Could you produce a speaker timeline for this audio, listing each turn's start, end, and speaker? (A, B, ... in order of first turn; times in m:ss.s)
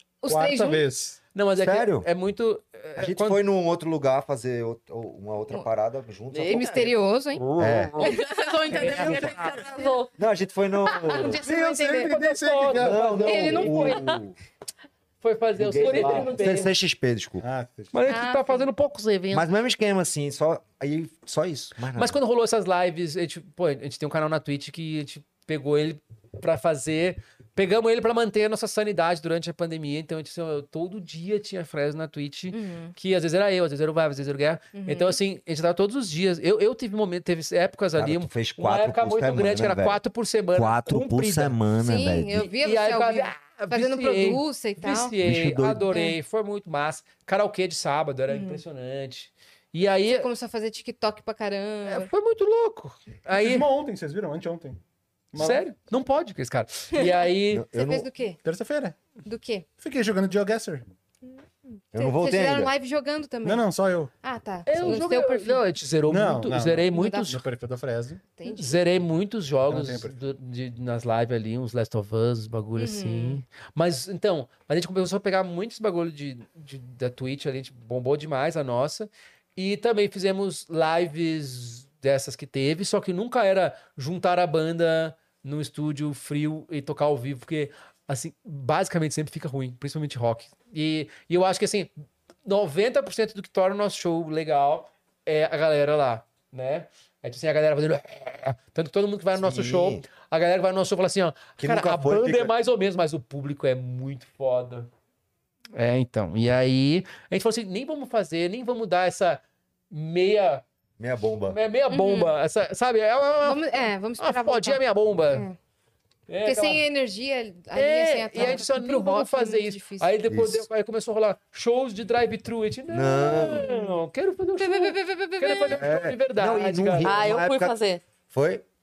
0:00.2-0:00.8 A
0:00.2-0:01.2 B
0:01.3-0:03.4 C
0:01.6-0:02.1 D
0:03.0-0:06.9 D
0:06.3-0:06.7 E
0:06.5-0:07.4 A
0:07.4-0:08.1 C
0:07.6-0:08.0 D
0:08.0-0:09.9 A
0:08.0-0:10.1 E
0:08.7-0:09.6 C
0:08.9-0:09.2 D
0:10.2-0:11.4 D
0:11.0-0:12.1 A
0:11.3-0:13.2 B
0:11.5-0:14.0 C
0:12.8-0:14.4 D
0:13.2-0:14.2 A
0:15.2-0:16.7 C
0:15.6-0:17.4 D
0:17.4-0:17.9 B
0:17.9-0:19.5 C
0:18.1-0:18.7 A
0:19.3-0:22.2 D
0:21.9-0:41.6 C
0:32.5-0:32.9 A
0:34.7-0:35.2 A
0:38.0-0:40.0 D
0:40.5-0:42.4 D
0:41.8-0:45.1 A
0:42.4-0:50.3 C
0:45.2-0:45.9 D
0:45.9-0:46.1 A
0:48.3-0:48.6 A
0:50.0-0:52.1 A
0:51.8-0:53.7 C
0:53.4-0:54.8 B
0:55.3-0:55.6 B
0:55.4-0:57.7 C
0:57.5-0:58.1 D
0:57.7-0:58.4 A
0:58.4-0:59.0 B
0:59.2-0:59.7 A
0:59.8-1:00.8 B
1:01.2-1:03.7 A
1:01.9-1:02.7 D
1:03.4-1:04.1 B
1:04.2-1:05.6 A
1:04.7-1:07.4 C
1:06.0-1:08.2 B
1:06.9-1:07.3 A
1:08.3-1:08.8 A
1:08.4-1:31.9 C
1:09.7-1:10.1 B
1:12.8-1:13.4 A
1:32.4-1:44.9 C
1:39.3-1:40.0 D
1:41.6-1:42.5 D
1:45.7-1:50.6 C
1:51.0-1:51.6 D
1:51.5-1:55.5 C
1:51.9-1:52.3 A
1:53.4-1:54.8 A
1:56.3-1:56.8 C
1:56.4-2:00.1 A
1:57.7-2:07.1 C
2:00.3-2:00.6 D
2:02.9-2:03.7 D
2:03.2-2:03.9 A
2:04.6-2:05.9 A
2:05.7-2:07.7 D
2:07.0-2:08.0 E
2:08.3-2:08.6 D